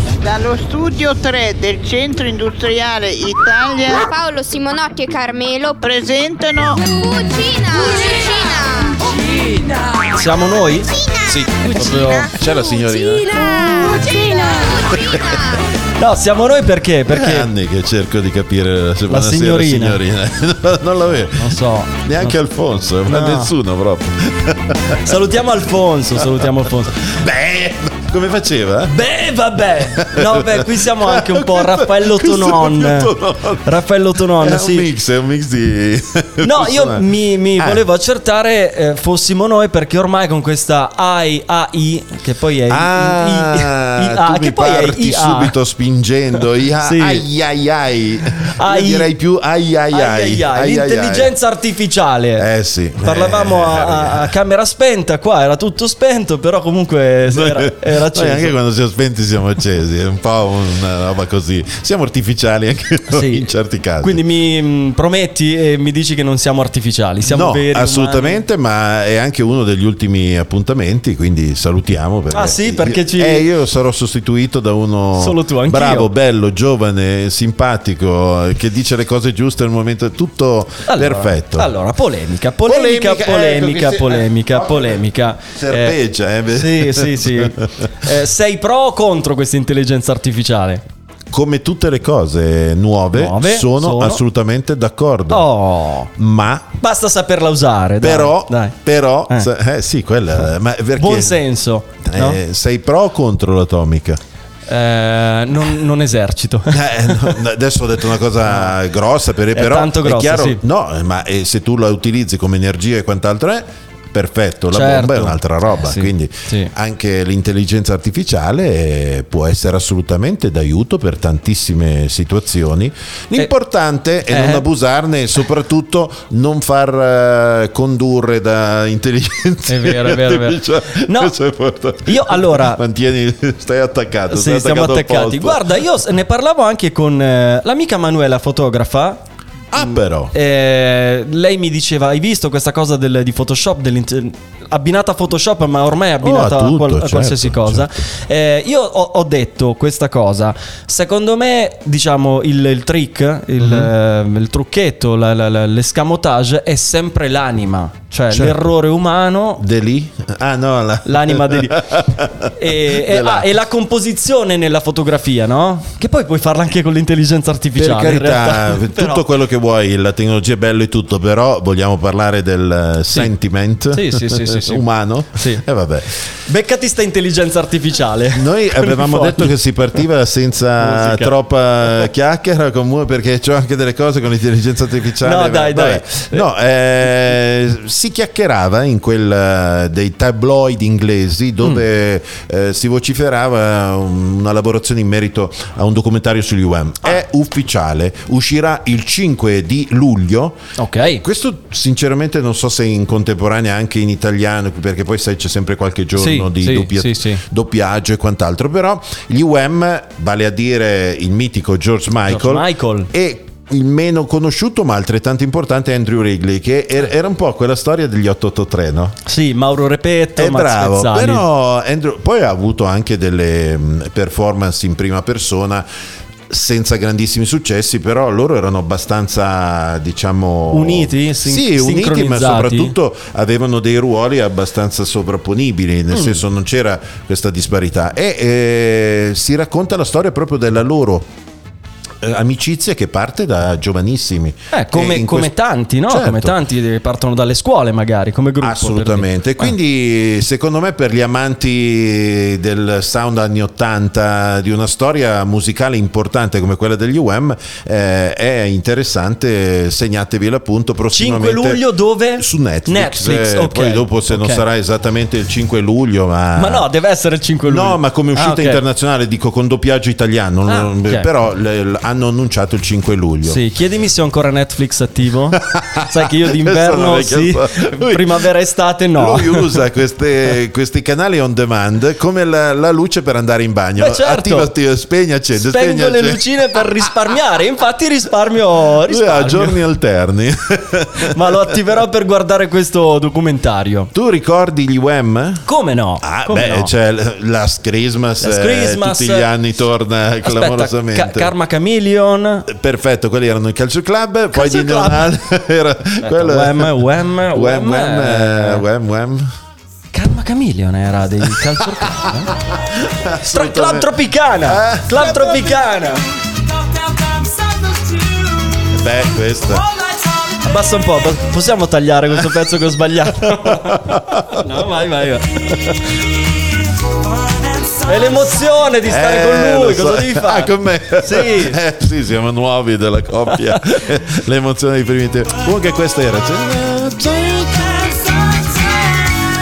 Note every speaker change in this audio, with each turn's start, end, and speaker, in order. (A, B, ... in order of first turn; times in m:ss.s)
0:00.2-0:04.1 A
0:03.9-0:05.8 B
0:05.8-0:06.9 A
0:06.8-0:09.1 B
0:10.1-0:10.9 C
0:10.9-0:15.6 B
0:11.2-0:13.4 D
0:11.7-0:12.3 C
0:13.6-0:13.9 A
0:14.9-0:15.2 D
0:16.0-0:17.5 C
0:17.1-0:25.2 D
0:19.1-0:20.0 C
0:21.3-0:22.4 C
0:23.1-0:23.5 C
0:25.0-0:27.0 C
0:26.1-0:29.0 D
0:28.9-0:34.9 C
0:29.8-0:37.8 D
0:36.4-0:45.5 C
0:42.7-0:51.3 D
0:46.8-0:47.3 C
0:48.5-0:49.1 C
0:49.9-0:52.5 C
0:52.4-0:54.3 D
0:53.0-0:58.5 C
0:57.3-1:04.2 D
1:03.1-1:03.5 C
1:04.0-1:08.4 C
1:07.2-1:21.7 D
1:12.3-1:13.5 C
1:15.2-1:16.1 C
1:20.9-1:26.0 C
1:22.6-1:28.1 D
1:26.5-1:30.8 C
1:31.3-1:35.5 D
1:33.1-1:34.2 C
1:35.3-1:36.1 C
1:36.2-1:36.7 D
1:36.8-1:38.7 C
1:38.0-1:41.4 D
1:41.0-1:42.4 C
1:42.0-1:44.2 D
1:44.7-1:47.4 C
1:46.7-2:15.8 D
1:48.5-1:48.7 C
1:49.5-1:50.6 C
1:54.7-1:56.7 C
2:04.3-2:04.6 C
2:09.7-2:11.3 C
2:12.0-2:12.8 C
2:14.3-2:19.2 C
2:19.7-2:20.3 D
2:19.8-2:39.6 C
2:26.2-2:28.0 D
2:33.6-2:33.9 D
2:38.3-2:38.7 D
2:39.6-2:43.6 D
2:41.0-2:41.9 C
2:42.5-2:49.2 C
2:47.7-2:56.2 D
2:53.9-2:55.6 C
2:56.4-2:59.5 C
2:58.3-3:20.6 D
3:00.8-3:01.4 C
3:05.2-3:06.4 C
3:20.8-3:21.2 C
3:21.2-3:39.2 D
3:26.2-3:27.4 C
3:32.3-3:33.1 C
3:39.2-3:41.4 C
3:40.4-3:45.9 D
3:46.5-4:01.3 D
3:50.7-3:52.9 C
3:56.1-3:56.4 C
4:02.2-4:05.5 D
4:04.7-4:09.7 C
4:06.0-4:06.6 D
4:08.6-4:21.8 D
4:21.1-4:24.6 C
4:22.4-4:26.9 D
4:26.6-4:28.8 C
4:27.6-4:33.6 D
4:30.7-4:31.3 C
4:33.4-4:39.8 C
4:35.5-4:38.5 D
4:39.2-4:47.1 D
4:44.0-4:44.7 C
4:45.5-4:49.8 C
4:49.0-4:51.8 D
4:51.2-4:54.1 C
4:54.1-4:55.7 D
4:55.6-4:56.9 C
4:56.2-5:01.5 D
4:58.4-4:59.5 C
5:00.4-5:02.7 C
5:02.7-5:09.5 D
5:04.5-5:05.3 C
5:06.2-5:08.8 C
5:10.1-5:12.6 C
5:11.4-5:15.9 D
5:13.4-5:16.4 C
5:17.0-5:18.4 C
5:18.8-5:19.9 D
5:20.4-5:26.2 C
5:23.3-5:24.8 D
5:27.9-5:31.8 C
5:29.0-5:38.8 D